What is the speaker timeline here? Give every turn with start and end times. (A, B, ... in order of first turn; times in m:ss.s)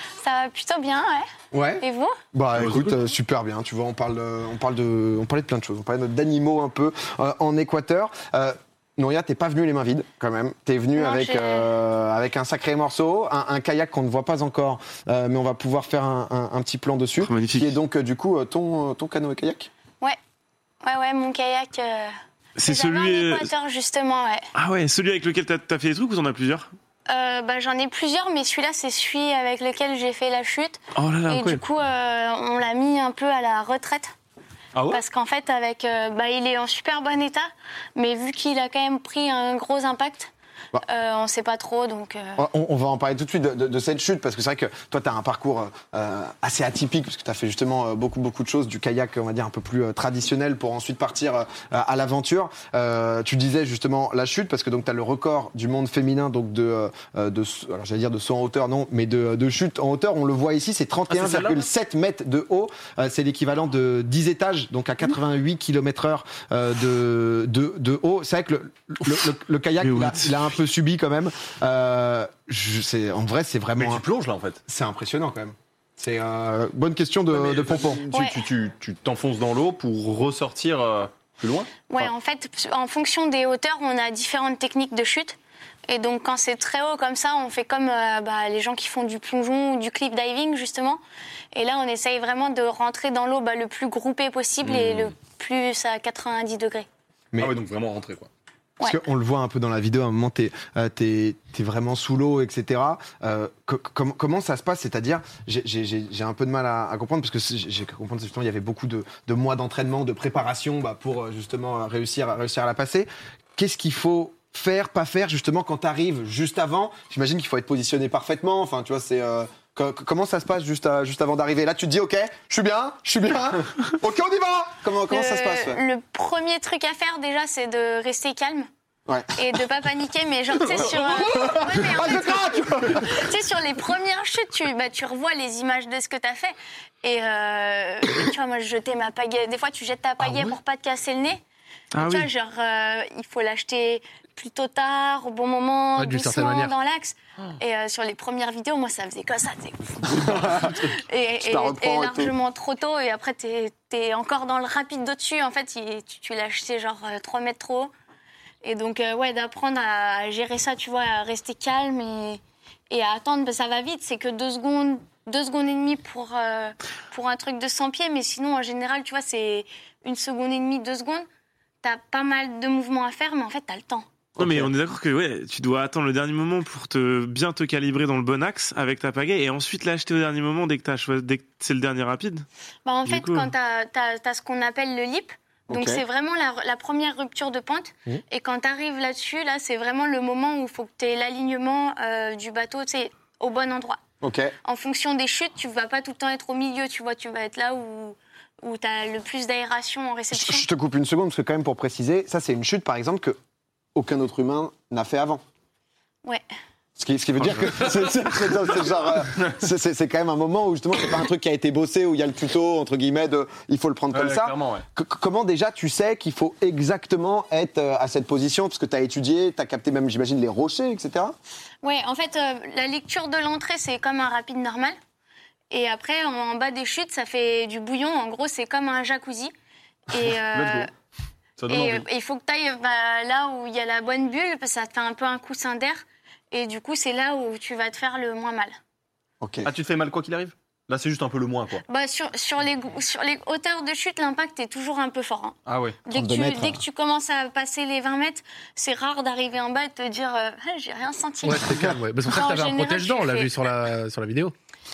0:00.2-0:01.3 A
0:01.5-0:19.7 B
0:01.8-0:02.2 A
0:02.6-0:03.0 C
0:11.0-0:11.7 A
0:17.2-0:17.8 D
0:20.8-0:22.1 A
0:22.6-0:23.5 D
0:22.6-0:24.5 A
0:24.5-0:26.7 D
0:27.1-0:34.1 A
0:30.9-0:31.6 D
0:34.8-0:35.0 C
0:34.9-0:40.3 A
0:40.8-0:42.4 A
0:42.4-1:14.0 B
1:01.1-1:01.7 C
1:09.8-1:10.4 D
1:13.8-1:14.6 C
1:14.7-1:18.0 B
1:17.3-1:22.1 C
1:18.1-1:18.4 A
1:21.9-1:25.4 A
1:25.9-1:31.0 A
1:31.5-1:36.9 A
1:34.6-1:35.1 C
1:37.4-1:38.3 C
1:38.8-2:05.8 B
2:05.1-2:08.7 A
2:09.1-2:09.5 B
2:09.4-2:21.4 A
2:10.6-2:13.3 B
2:21.9-2:22.3 D
2:22.0-2:37.9 A
2:26.0-2:26.7 E
2:30.1-2:30.8 B
2:30.4-2:30.7 C
2:31.4-2:32.3 B
2:38.6-2:51.3 A
2:51.8-2:54.0 A
2:54.4-3:02.5 D
2:54.4-2:54.6 C
3:02.8-3:14.0 A
3:03.1-3:03.5 D
3:05.7-3:06.0 B
3:14.2-3:14.5 B
3:14.6-3:20.7 A
3:20.3-3:23.4 B
3:24.0-3:25.4 B
3:27.0-3:41.4 B
3:34.1-3:34.8 C
3:41.8-3:45.0 A
3:45.7-3:49.5 A
3:50.1-3:50.9 A
3:50.4-3:50.9 C
3:51.6-3:52.0 C
3:51.7-3:58.8 A
3:59.4-3:59.7 B
3:59.6-4:01.8 C
4:01.9-4:13.6 A
4:05.7-4:06.0 C
4:06.1-4:06.8 B
4:11.4-4:14.5 E